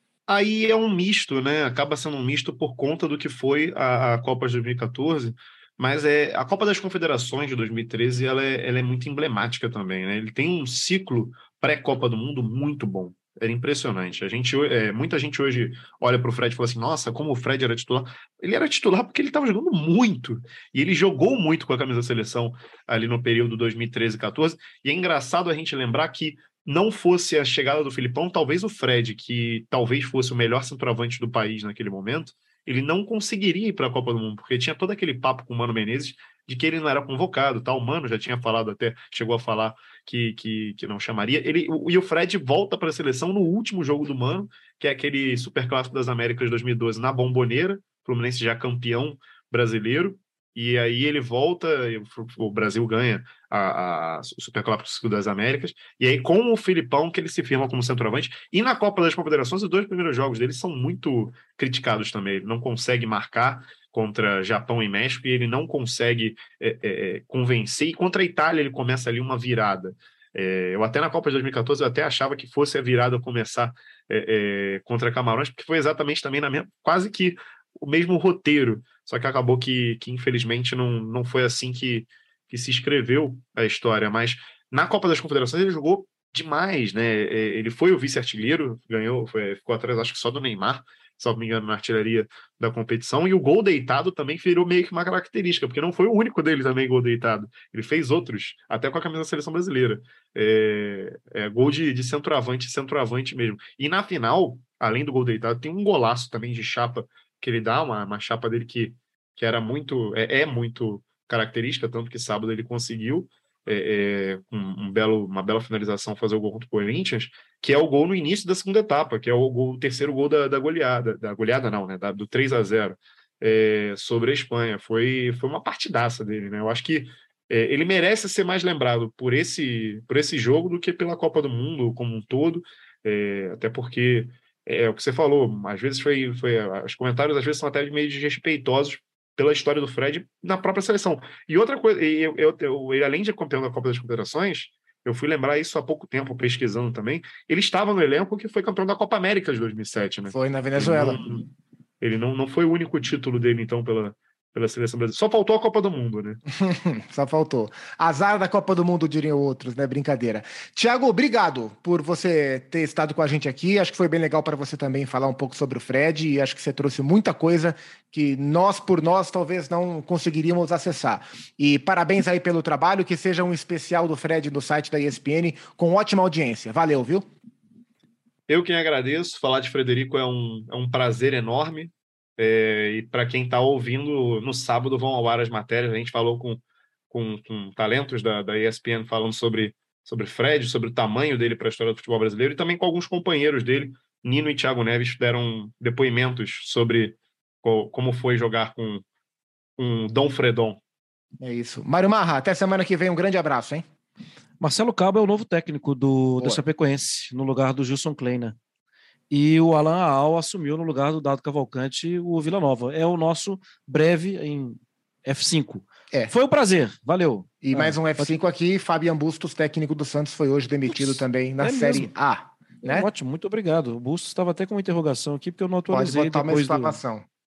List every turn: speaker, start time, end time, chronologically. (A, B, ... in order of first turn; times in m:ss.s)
0:00.3-2:31.5 A
2:30.3-2:31.2 B
2:32.0-2:36.4 A
2:36.6-2:57.2 B
2:58.5-3:19.0 A
3:19.8-3:20.8 A
3:21.4-3:23.8 B
3:24.6-3:28.6 C
3:29.3-3:38.3 C
3:37.6-3:43.1 B
3:40.9-3:42.1 C
3:42.8-3:47.0 C
3:45.9-3:47.3 B